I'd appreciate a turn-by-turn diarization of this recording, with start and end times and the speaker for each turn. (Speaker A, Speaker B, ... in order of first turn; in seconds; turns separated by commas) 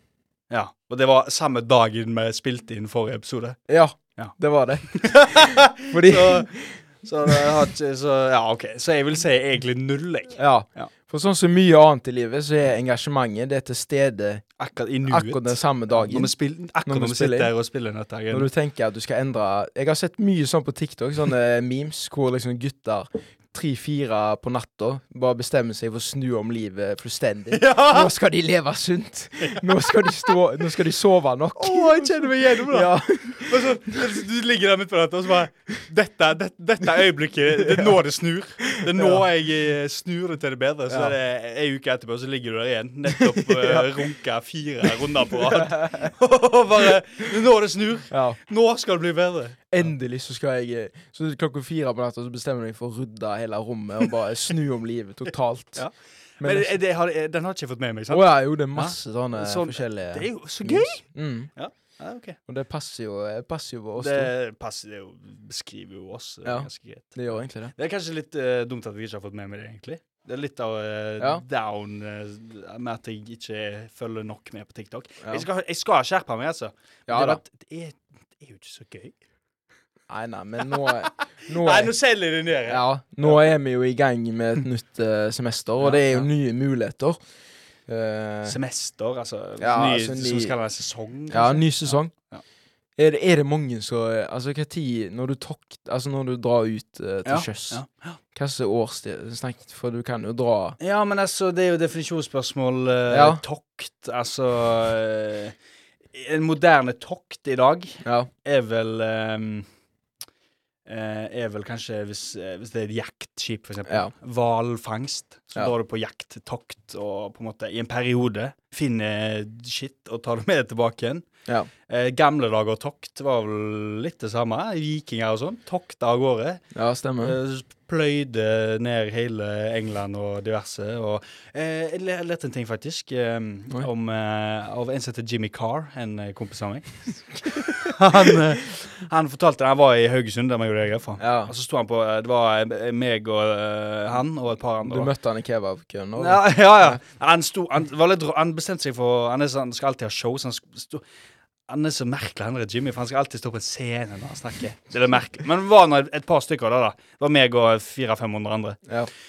Speaker A: 0.5-3.6, Speaker B: 3.7-7.5, Speaker A: 4.9-6.5, Speaker A: 7.0-10.9, Speaker B: 10.4-14.4, Speaker A: 14.6-18.5, Speaker B: 15.1-16.3, Speaker B: 16.9-17.5, Speaker B: 18.3-34.0, Speaker A: 27.5-28.1, Speaker A: 31.6-49.9, Speaker B: 37.6-37.9, Speaker B: 38.9-39.2, Speaker B: 43.2-43.9, Speaker B: 45.3-46.1, Speaker B: 48.1-48.4, Speaker B: 49.7-55.9, Speaker A: 55.8-61.0, Speaker B: 56.4-56.8, Speaker B: 58.1-61.5, Speaker A: 61.6-62.4, Speaker B: 62.5-64.3, Speaker A: 64.0-67.2, Speaker B: 66.5-67.7, Speaker A: 67.7-79.2, Speaker B: 77.1-77.4, Speaker B: 80.1-81.9, Speaker A: 80.8-83.5, Speaker B: 82.7-87.2, Speaker A: 85.8-86.3, Speaker B: 87.9-88.6, Speaker A: 88.5-92.4, Speaker B: 89.6-90.6, Speaker B: 91.3-92.1, Speaker B: 93.0-97.8, Speaker A: 97.2-98.2, Speaker B: 98.3-100.8, Speaker A: 100.8-105.5, Speaker B: 103.1-103.4, Speaker A: 106.1-109.7, Speaker B: 108.0-108.3, Speaker A: 110.9-121.3, Speaker B: 113.9-114.1, Speaker A: 121.9-126.6, Speaker B: 126.7-127.4, Speaker A: 127.2-145.1, Speaker B: 141.2-141.5, Speaker B: 144.8-147.0, Speaker A: 146.2-151.0, Speaker A: 151.7-158.8